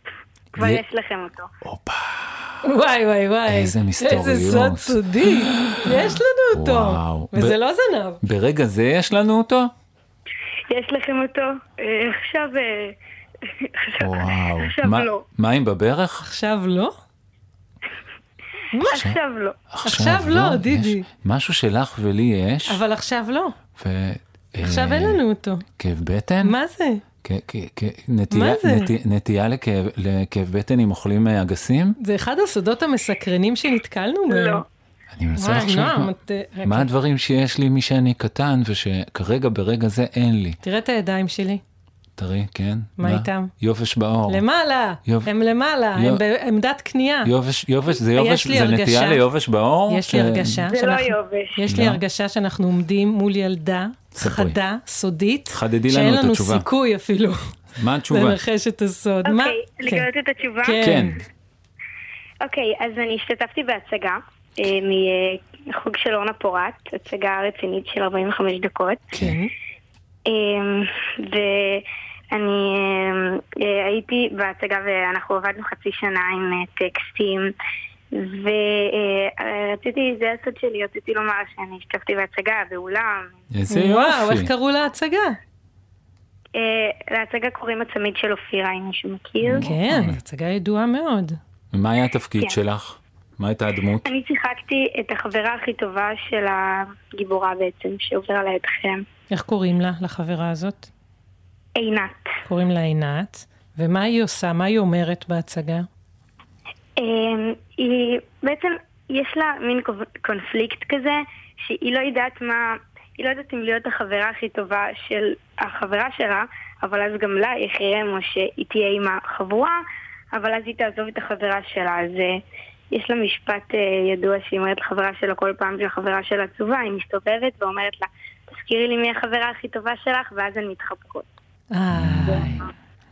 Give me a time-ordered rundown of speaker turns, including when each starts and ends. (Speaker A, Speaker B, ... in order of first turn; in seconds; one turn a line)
Speaker A: 0.5-1.4
Speaker B: 0.6-0.8
Speaker B: 1.6-2.6
Speaker C: 2.6-8.2
Speaker B: 3.5-7.6
Speaker B: 8.2-9.7
Speaker A: 10.7-12.9
Speaker A: 13.6-15.2
Speaker B: 14.0-16.2
Speaker C: 16.2-16.9
Speaker C: 18.7-19.1
Speaker A: 18.9-19.6
Speaker B: 18.9-19.2
Speaker B: 19.7-22.8
Speaker C: 19.8-21.0
Speaker C: 22.6-23.5
Speaker B: 23.8-25.2
Speaker C: 24.6-25.6
Speaker B: 25.8-26.5
Speaker C: 26.4-27.0
Speaker B: 27.2-31.9
Speaker C: 28.3-28.9
Speaker C: 32.0-34.6
Speaker A: 34.3-34.6
Speaker B: 35.1-36.1
Speaker C: 35.4-36.9
Speaker B: 36.6-40.6
Speaker C: 40.6-41.6
Speaker B: 42.2-44.4
Speaker C: 43.0-43.5
Speaker C: 44.3-47.3
Speaker B: 45.0-45.3
Speaker B: 46.0-46.2
Speaker B: 47.2-50.7
Speaker C: 48.1-49.2
Speaker C: 49.9-57.5
Speaker A: 50.7-51.6
Speaker B: 51.7-52.0
Speaker B: 54.1-54.6
Speaker B: 55.5-56.6
Speaker B: 57.8-58.4
Speaker C: 58.1-60.0
Speaker A: 59.2-60.8
Speaker C: 60.6-61.1
Speaker B: 60.8-61.2
Speaker A: 62.4-69.0
Speaker C: 69.2-69.5
Speaker A: 70.3-77.5
Speaker A: 78.1-83.3
Speaker B: 83.5-84.5
Speaker C: 83.7-85.4
Speaker A: 86.5-89.7
Speaker B: 89.4-90.2
Speaker C: 89.5-91.4
Speaker B: 91.7-94.0
Speaker A: 94.0-99.0
Speaker C: 99.3-100.9
Speaker A: 101.8-102.3
Speaker C: 102.5-105.9
Speaker A: 107.0-119.8
Speaker A: 120.3-122.4
Speaker A: 122.9-131.3
Speaker C: 131.7-132.5
Speaker B: 131.9-132.7